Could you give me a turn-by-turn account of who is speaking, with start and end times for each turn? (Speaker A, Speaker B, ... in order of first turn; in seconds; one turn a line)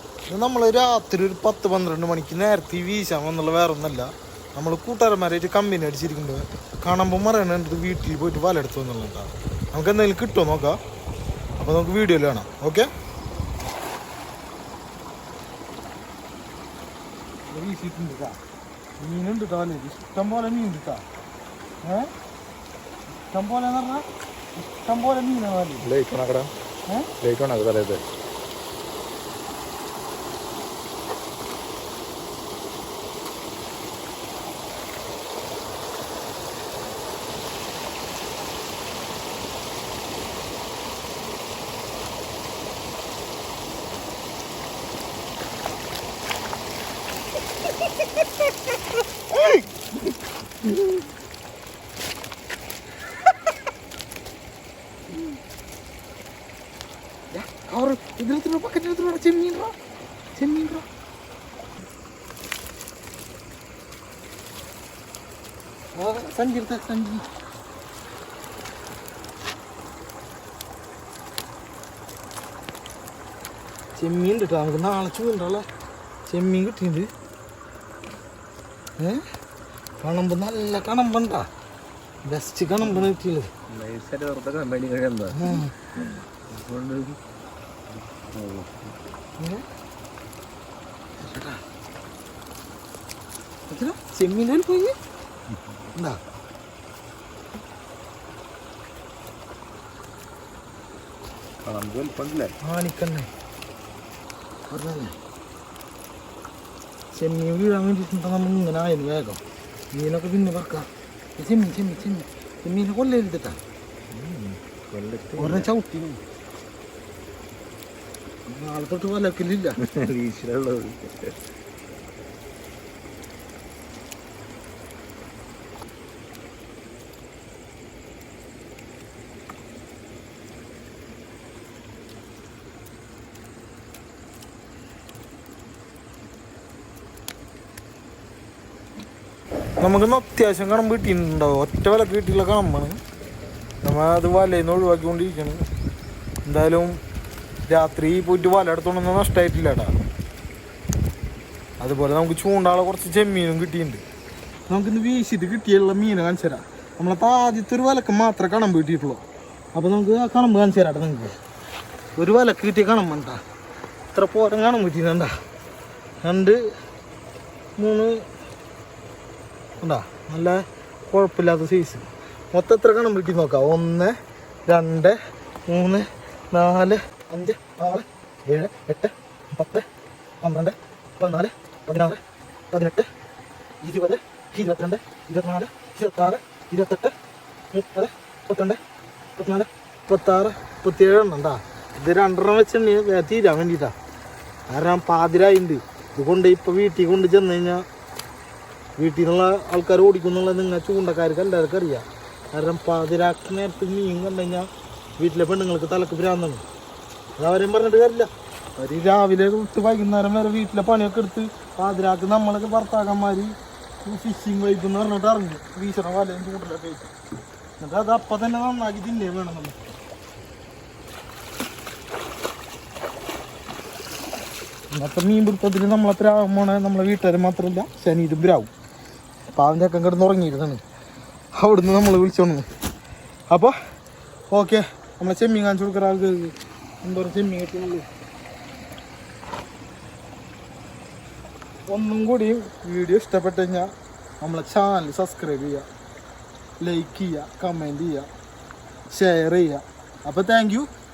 Speaker A: 0.3-10.8
Speaker A: 11.6-12.9
Speaker A: 17.5-18.4
Speaker A: 19.0-21.0
Speaker A: 21.8-22.1
Speaker A: 23.2-25.9
Speaker B: 25.8-26.5
Speaker A: 26.9-27.1
Speaker B: 27.2-28.0
Speaker A: 57.3-59.7
Speaker A: 60.3-60.9
Speaker A: 65.9-67.2
Speaker A: 74.0-75.7
Speaker A: 76.3-77.1
Speaker A: 79.0-79.2
Speaker A: 80.0-81.5
Speaker A: 82.2-83.5
Speaker B: 82.8-83.1
Speaker B: 83.7-87.2
Speaker A: 85.3-85.7
Speaker B: 87.9-89.0
Speaker A: 89.4-89.6
Speaker A: 91.2-91.6
Speaker A: 93.7-94.9
Speaker B: 95.5-95.8
Speaker A: 95.9-96.2
Speaker B: 101.6-102.6
Speaker A: 102.6-103.3
Speaker A: 104.7-105.2
Speaker A: 107.1-109.4
Speaker A: 109.9-113.6
Speaker B: 114.1-115.7
Speaker A: 115.4-116.2
Speaker A: 118.5-119.8
Speaker B: 119.8-121.4
Speaker A: 139.8-143.0
Speaker A: 143.8-145.6
Speaker A: 146.4-147.0
Speaker A: 147.7-149.9
Speaker A: 151.8-154.0
Speaker A: 154.7-161.3
Speaker A: 162.2-163.4
Speaker A: 164.1-165.3
Speaker A: 166.2-166.7
Speaker A: 167.8-168.2
Speaker A: 169.8-179.9
Speaker A: 180.4-183.1
Speaker A: 183.8-187.2
Speaker A: 187.7-188.8
Speaker A: 189.3-193.9
Speaker A: 194.7-197.8
Speaker A: 199.0-206.6
Speaker A: 207.4-217.1
Speaker A: 217.8-219.8
Speaker A: 224.9-228.7
Speaker A: 229.5-230.8
Speaker A: 231.5-232.7
Speaker A: 233.5-233.8
Speaker A: 234.5-238.1
Speaker A: 241.9-245.9
Speaker A: 246.8-248.3
Speaker A: 249.1-250.9